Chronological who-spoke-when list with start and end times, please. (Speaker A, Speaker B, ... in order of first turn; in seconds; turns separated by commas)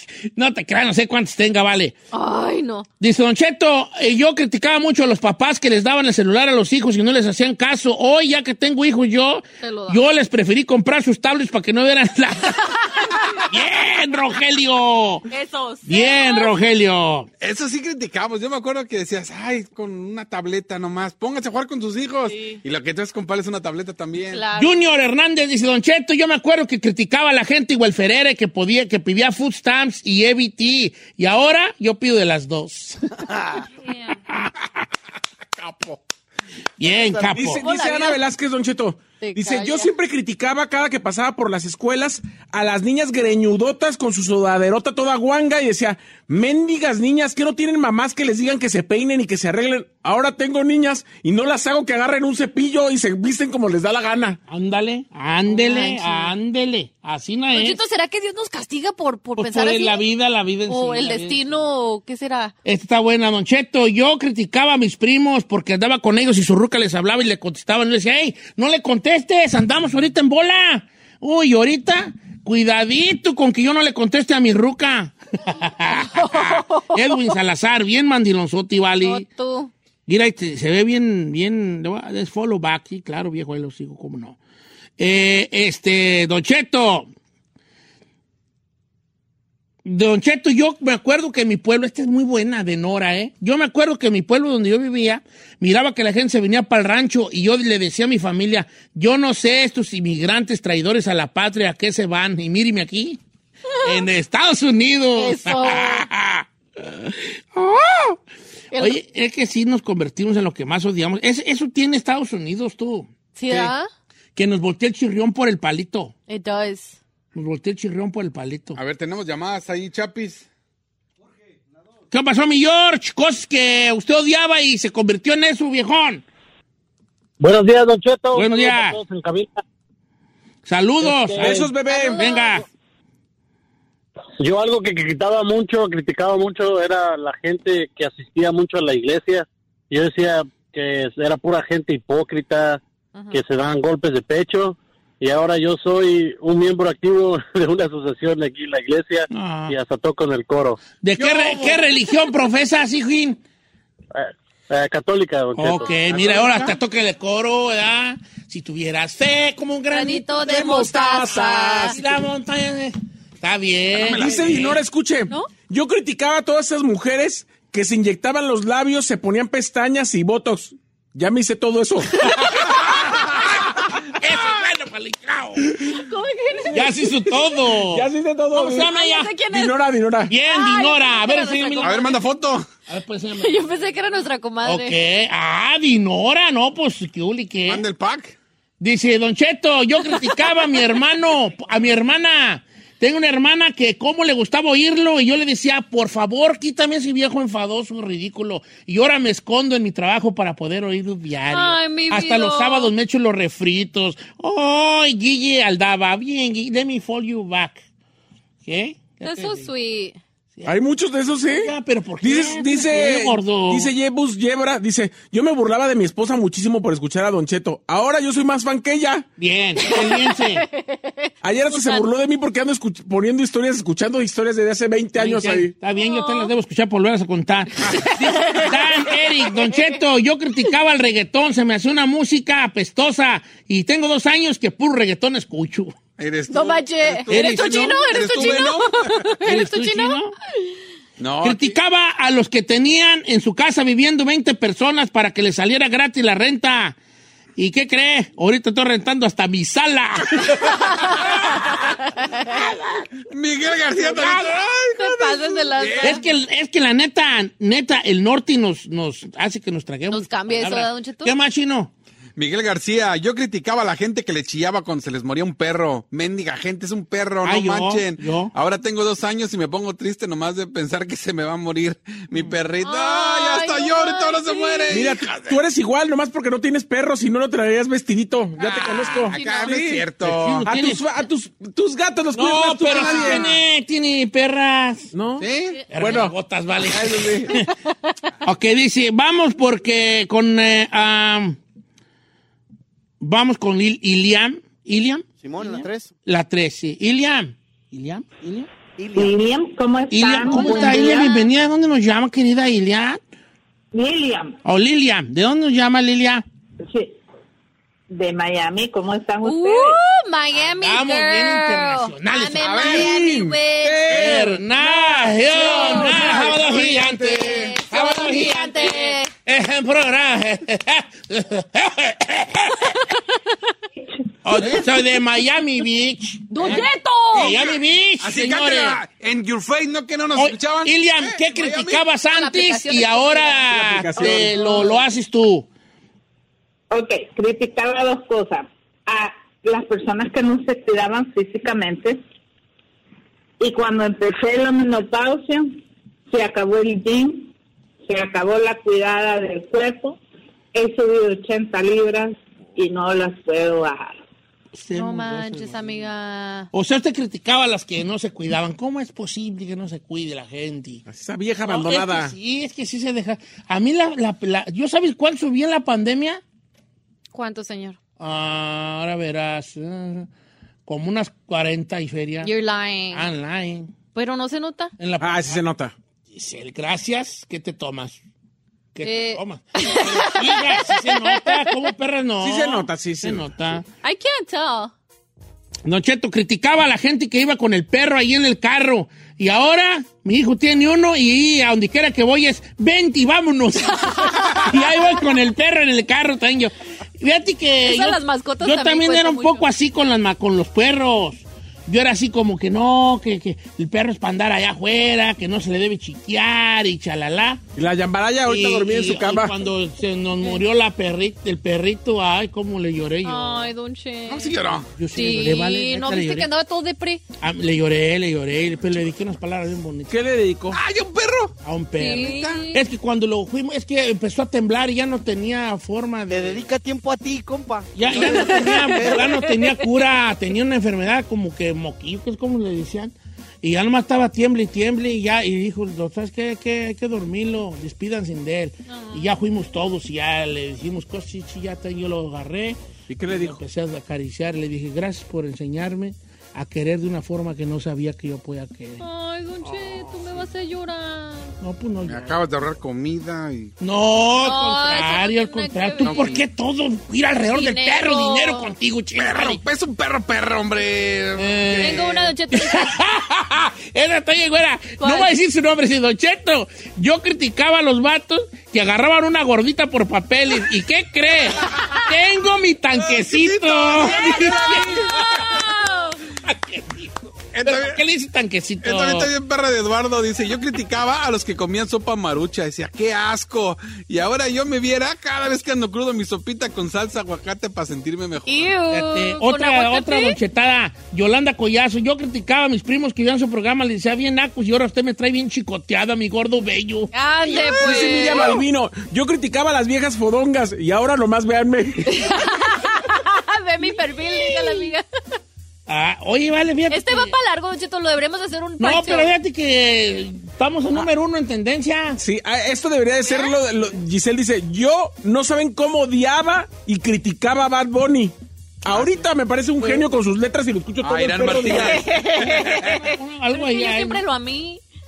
Speaker A: 0.2-1.9, Speaker B: 2.1-2.9, Speaker A: 3.0-15.3, Speaker B: 9.6-10.0, Speaker B: 13.0-13.4, Speaker B: 15.3-16.5, Speaker A: 15.9-17.3, Speaker C: 17.4-24.4, Speaker B: 22.3-22.6, Speaker B: 24.3-24.8, Speaker A: 24.6-33.3, Speaker C: 35.6-36.0, Speaker A: 36.8-37.6, Speaker D: 36.9-37.4, Speaker E: 37.3-54.4, Speaker B: 37.6-38.2, Speaker B: 39.2-39.9, Speaker A: 54.5-57.8, Speaker B: 55.5-56.3, Speaker B: 57.5-60.0, Speaker A: 59.4-61.6, Speaker B: 60.7-62.5, Speaker A: 62.6-79.3, Speaker B: 76.1-77.4, Speaker B: 79.0-79.7, Speaker A: 80.1-84.4, Speaker A: 85.0-87.1, Speaker A: 89.8-103.2, Speaker A: 103.8-108.2, Speaker B: 105.2-106.1, Speaker A: 108.8-113.7, Speaker B: 113.4-113.9, Speaker A: 114.4-116.1, Speaker B: 116.3-117.0, Speaker A: 117.3-118.8, Speaker C: 118.8-120.5, Speaker A: 122.1-126.2, Speaker F: 127.4-129.6, Speaker A: 128.3-129.0, Speaker A: 130.7-132.7, Speaker F: 131.1-131.7, Speaker E: 131.4-132.3, Speaker B: 131.9-132.6, Speaker F: 134.4-150.8, Speaker A: 149.3-149.8, Speaker A: 151.0-153.4, Speaker F: 154.1-156.6, Speaker A: 155.6-160.6, Speaker B: 159.9-162.0, Speaker E: 160.4-162.0, Speaker A: 161.8-164.8, Speaker C: 164.0-164.8, Speaker E: 164.1-172.6, Speaker A: 172.5-173.4, Speaker A: 174.0-175.8, Speaker B: 175.9-177.0, Speaker E: 176.7-180.3, Speaker A: 176.7-179.4, Speaker B: 178.8-179.8, Speaker A: 180.3-182.1, Speaker B: 180.5-182.2, Speaker C: 181.8-182.7, Speaker A: 182.9-184.0, Speaker B: 183.4-185.0, Speaker A: 184.6-187.8, Speaker C: 187.7-188.4, Speaker A: 188.8-207.8, Speaker B: 190.2-190.8, Speaker B: 201.5-202.9, Speaker A: 208.7-209.7, Speaker B: 209.2-210.2, Speaker E: 210.7-219.3, Speaker A: 211.5-213.9, Speaker A: 219.4-220.7, Speaker B: 219.9-222.1, Speaker E: 221.4-225.7, Speaker A: 225.2-235.9, Speaker B: 226.0-226.5, Speaker B: 227.9-229.8, Speaker C: 236.2-239.3, Speaker B: 236.5-240.2, Speaker A: 237.3-238.7, Speaker A: 239.4-240.3, Speaker C: 241.2-241.8, Speaker A: 241.4-247.0, Speaker A: 247.6-251.8, Speaker C: 253.3-256.2, Speaker B: 255.0-256.2, Speaker A: 256.0-261.9, Speaker B: 260.1-261.3, Speaker C: 262.4-275.6, Speaker A: 267.4-268.5, Speaker B: 272.8-275.1, Speaker E: 274.9-280.1, Speaker C: 278.6-280.7, Speaker B: 279.1-279.8, Speaker A: 280.2-281.0, Speaker E: 280.6-283.5, Speaker A: 282.3-285.1, Speaker C: 282.9-283.5, Speaker E: 285.1-286.3, Speaker C: 285.4-285.8, Speaker A: 285.9-287.7, Speaker E: 286.9-287.4, Speaker A: 288.4-291.6, Speaker A: 293.2-298.7, Speaker D: 295.4-296.1, Speaker D: 299.0-299.3, Speaker G: 299.1-301.4, Speaker A: 300.1-303.2, Speaker B: 300.4-301.5, Speaker G: 303.9-304.6, Speaker A: 304.6-306.4, Speaker G: 306.9-307.2, Speaker G: 308.1-310.0, Speaker B: 309.4-314.3, Speaker A: 310.8-313.1, Speaker C: 312.6-313.2, Speaker E: 312.8-316.1, Speaker A: 314.1-323.0, Speaker B: 315.5-319.3, Speaker C: 315.6-317.8, Speaker G: 324.0-324.8, Speaker A: 324.4-329.0, Speaker B: 326.5-327.6, Speaker C: 327.3-332.1, Speaker A: 330.4-335.7, Speaker B: 332.3-333.7, Speaker E: 333.7-335.0, Speaker G: 336.9-342.2, Speaker G: 343.6-345.8, Speaker G: 346.3-347.5, Speaker G: 348.1-350.2, Speaker G: 350.7-354.2, Speaker A: 354.7-356.1, Speaker B: 354.9-356.7, Speaker A: 356.7-361.0, Speaker E: 361.1-362.4, Speaker A: 361.6-366.4, Speaker B: 367.3-368.0, Speaker A: 368.2-370.3, Speaker A: 370.9-372.5, Speaker B: 372.4-373.2, Speaker A: 373.1-373.9, Speaker B: 374.1-374.9, Speaker A: 375.0-375.6, Speaker E: 375.2-375.9, Speaker A: 376.3-378.2, Speaker A: 378.9-383.9, Speaker B: 379.0-381.7, Speaker E: 382.4-383.5, Speaker B: 384.0-384.9, Speaker A: 385.9-407.6, Speaker B: 394.1-395.0, Speaker B: 397.9-399.7, Speaker E: 407.8-409.6, Speaker A: 408.5-413.7, Speaker B: 413.2-414.6, Speaker C: 414.3-414.9, Speaker A: 415.0-416.5, Speaker B: 415.1-417.2, Speaker A: 417.4-420.2, Speaker E: 420.1-420.8, Speaker C: 420.7-421.6, Speaker A: 421.6-426.7, Speaker B: 422.0-422.8, Speaker C: 422.2-422.6, Speaker D: 426.3-429.5, Speaker A: 427.9-449.1, Speaker B: 428.2-429.6, Speaker B: 438.9-439.3, Speaker E: 443.1-443.6, Speaker B: 449.0-451.5, Speaker A: 449.6-450.5, Speaker A: 451.6-452.4, Speaker C: 452.1-453.7, Speaker A: 453.8-459.6, Speaker B: 454.4-456.4, Speaker C: 456.0-456.4, Speaker B: 457.5-458.7, Speaker C: 459.2-462.1, Speaker A: 461.4-475.5, Speaker B: 461.8-463.0, Speaker B: 465.0-465.3, Speaker C: 472.9-475.6, Speaker B: 474.0-476.2, Speaker A: 476.4-479.3, Speaker C: 477.5-478.0, Speaker C: 478.8-488.8, Speaker B: 488.5-490.4, Speaker A: 488.9-498.0, Speaker B: 497.1-498.6, Speaker E: 497.7-502.3, Speaker B: 502.1-505.1, Speaker A: 504.2-504.9, Speaker A: 505.9-507.4, Speaker B: 506.9-509.3, Speaker A: 508.8-512.2, Speaker E: 512.2-522.1, Speaker B: 513.3-513.6, Speaker C: 518.9-519.2, Speaker C: 521.0-522.9, Speaker B: 521.6-524.8, Speaker A: 522.6-524.2